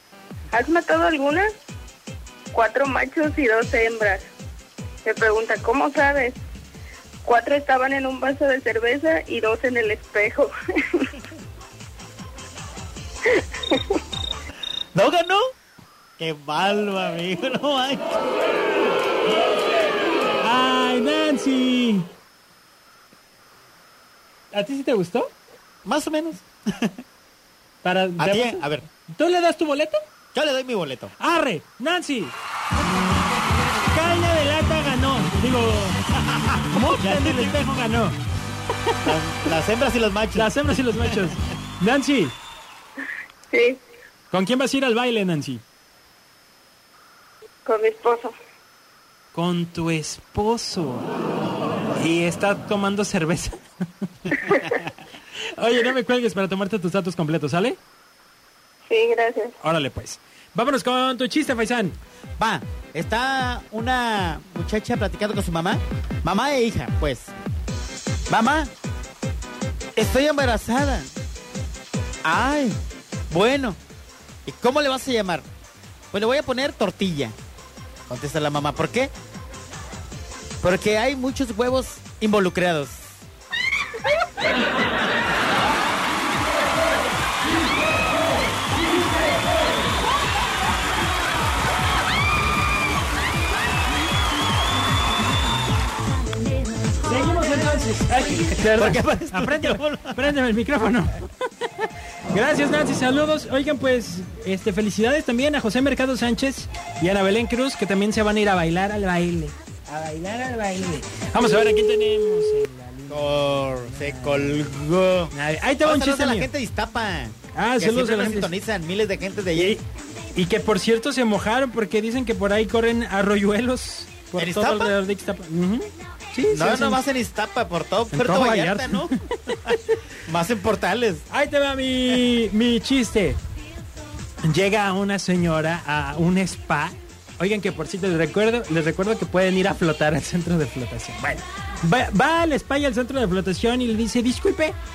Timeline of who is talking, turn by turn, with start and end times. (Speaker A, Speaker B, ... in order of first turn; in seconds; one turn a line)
Speaker A: 0.5-1.5
Speaker A: 2.5-4.2
Speaker A: 5.0-6.4
Speaker A: 7.2-11.1
Speaker A: 13.3-14.0
Speaker B: 14.9-15.4
Speaker B: 16.2-18.2
Speaker C: 20.4-22.1
Speaker C: 24.5-25.3
Speaker B: 25.8-26.9
Speaker C: 27.8-30.0
Speaker B: 28.2-28.9
Speaker B: 30.3-31.1
Speaker C: 31.2-32.3
Speaker C: 33.8-38.2
Speaker B: 36.4-37.8
Speaker B: 39.0-40.5
Speaker C: 40.3-42.4
Speaker A: 43.5-43.8
Speaker C: 44.3-45.6
Speaker A: 47.6-48.3
Speaker C: 49.3-51.1
Speaker C: 52.0-53.6
Speaker C: 54.2-54.8
Speaker C: 55.5-57.8
Speaker A: 58.9-59.5
Speaker C: 59.6-62.0
Speaker B: 62.4-67.3
Speaker B: 68.3-68.7
Speaker B: 70.0-71.1
Speaker B: 72.2-72.8
Speaker B: 73.3-73.8
Speaker B: 74.5-75.5
Speaker B: 76.1-77.3
Speaker B: 78.1-79.1
Speaker B: 80.6-83.2
Speaker C: 97.0-114.7
Speaker B: 98.7-100.3
Speaker B: 113.1-119.8
Speaker C: 115.3-116.5
Speaker C: 117.5-118.5
Speaker C: 119.5-119.8
Speaker C: 120.3-127.0
Speaker B: 124.3-124.9
Speaker B: 126.5-131.2
Speaker C: 128.1-129.8
Speaker C: 131.3-133.4
Speaker C: 134.4-144.8